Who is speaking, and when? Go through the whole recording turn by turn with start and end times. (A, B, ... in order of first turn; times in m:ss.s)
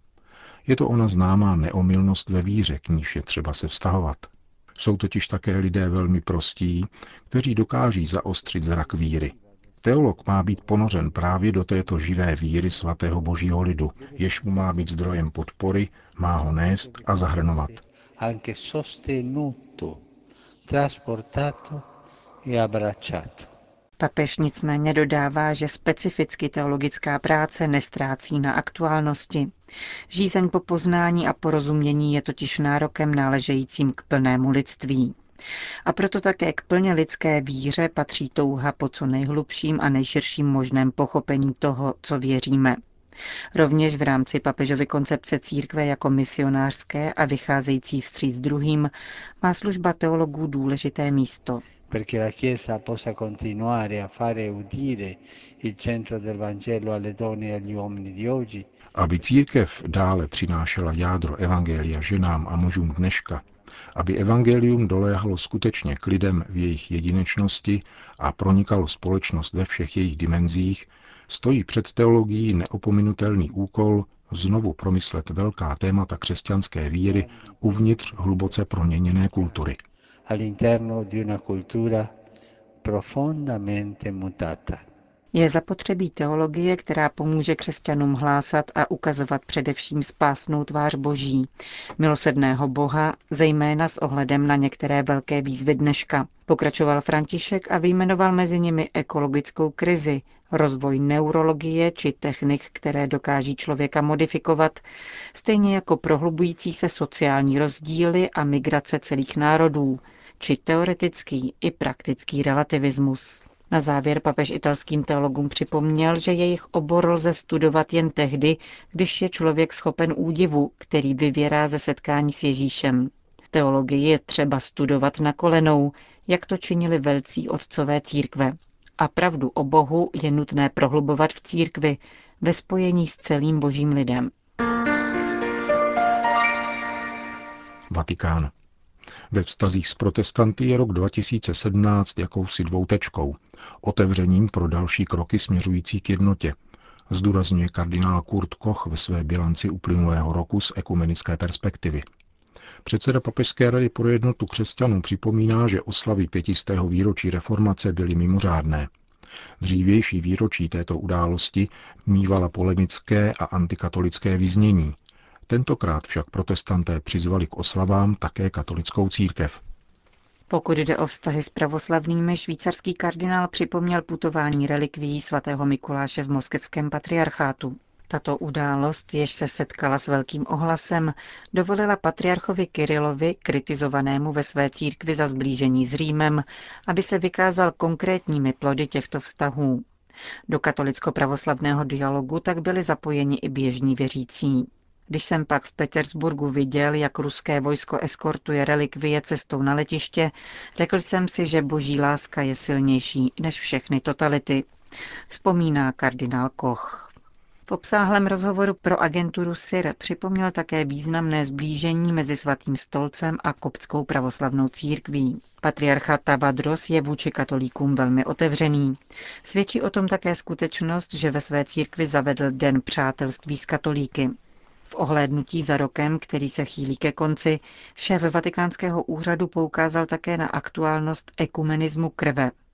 0:00.7-0:17.8 A
0:16.9-0:20.0 B
0:20.6-0:21.8 B
0:22.4-0:23.5 B
0:24.0-0:29.5 C
0:30.1-0:35.2 C
0:35.8-0:42.8 C
0:43.5-0:51.6 C
0:51.9-0:58.7 B
0:59.0-1:03.4 A
1:04.0-1:19.8 A
1:17.0-1:18.4 B
1:20.3-1:22.1 B
1:22.8-1:24.8 B
1:25.3-2:14.3 C
2:17.9-2:18.5 A
2:19.3-2:26.6 A
2:27.1-2:32.1 A
2:32.8-2:38.9 A
2:39.6-2:45.0 A
2:45.5-2:49.6 A
2:50.5-3:09.8 C
3:10.5-3:24.7 C
3:25.3-3:27.1 C
3:27.7-3:44.4 C
3:44.9-3:52.5 C